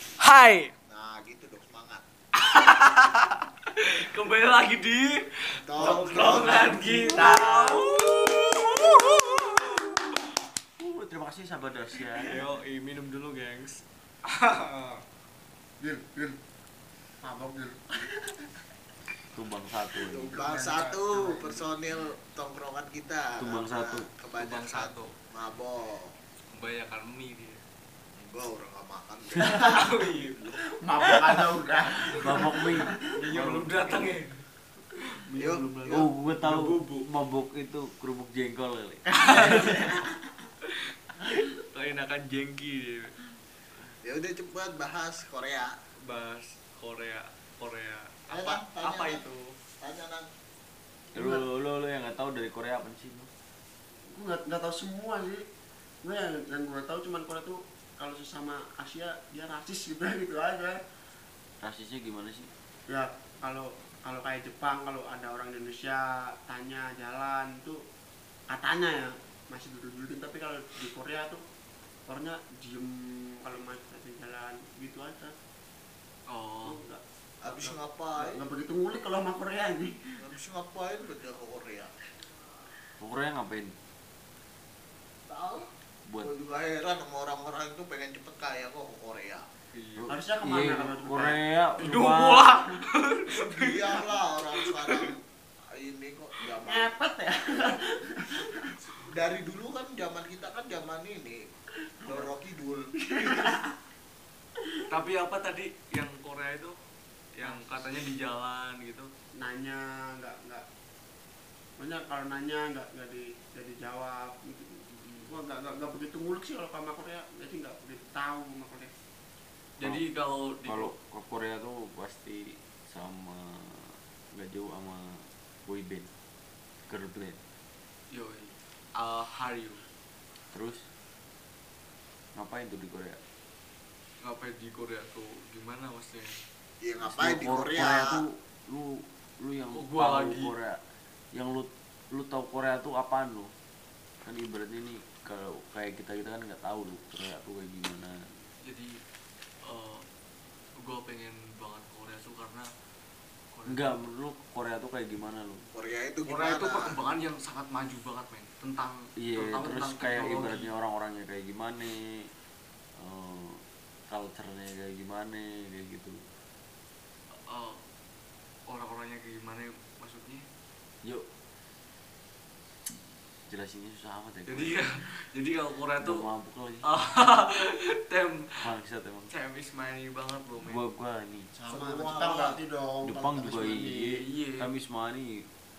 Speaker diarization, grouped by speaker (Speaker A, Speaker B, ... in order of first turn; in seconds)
Speaker A: 0.2-0.7, 2.4-10.1, 12.1-15.0, 24.3-25.1, 26.5-27.6, 29.5-30.5, 33.1-34.4, 35.2-37.0, 39.1-39.7, 41.6-43.1, 46.0-49.4, 76.3-76.8, 89.7-90.1, 91.8-94.0, 94.6-95.1, 104.9-106.7, 107.3-109.1, 115.0-115.3, 119.8-120.9, 128.1-129.8, 134.2-136.3, 139.7-140.5, 148.7-148.9, 149.6-150.0, 150.8-152.7, 153.5-154.0, 156.2-160.7, 167.5-167.8, 168.7-170.4, 174.5-176.2, 176.8-178.6, 179.3-180.8, 184.2-184.7
Speaker B: 0.9-2.0, 5.6-7.3, 20.1-26.1, 28.1-29.8, 35.4-36.1, 44.0-45.7, 48.3-49.2, 49.8-50.3, 77.4-78.4, 80.2-81.9, 85.3-85.7, 86.2-89.4, 93.3-95.2, 95.7-96.9, 98.9-101.4, 102.0-102.9, 136.8-138.2, 155.7-156.9, 181.7-182.6
Speaker C: 6.1-7.8, 15.8-16.4, 17.2-18.3, 20.3-21.7, 29.5-29.8, 30.7-33.1, 39.4-40.0, 51.1-51.4, 54.0-55.4, 56.0-60.8, 62.9-67.8, 68.5-71.4, 72.1-75.3, 76.6-80.1, 90.1-91.4, 96.6-98.7, 102.0-102.3, 103.0-103.7, 109.4-110.6, 111.8-118.9, 181.5-184.2
Speaker D: 10.8-12.4, 19.3-20.3, 23.4-24.1, 32.1-34.1, 35.9-40.0, 51.1-53.3, 61.6-62.5, 83.0-83.7, 90.0-92.6, 120.6-126.1, 126.9-127.4, 130.5-130.8, 132.3-133.2, 137.0-140.8, 141.3-143.5, 144.2-148.3, 153.7-155.7, 159.2-162.3, 163.0-166.2, 173.5-174.8, 176.0-176.8, 178.6-179.3, 180.6-181.5, 183.0-185.4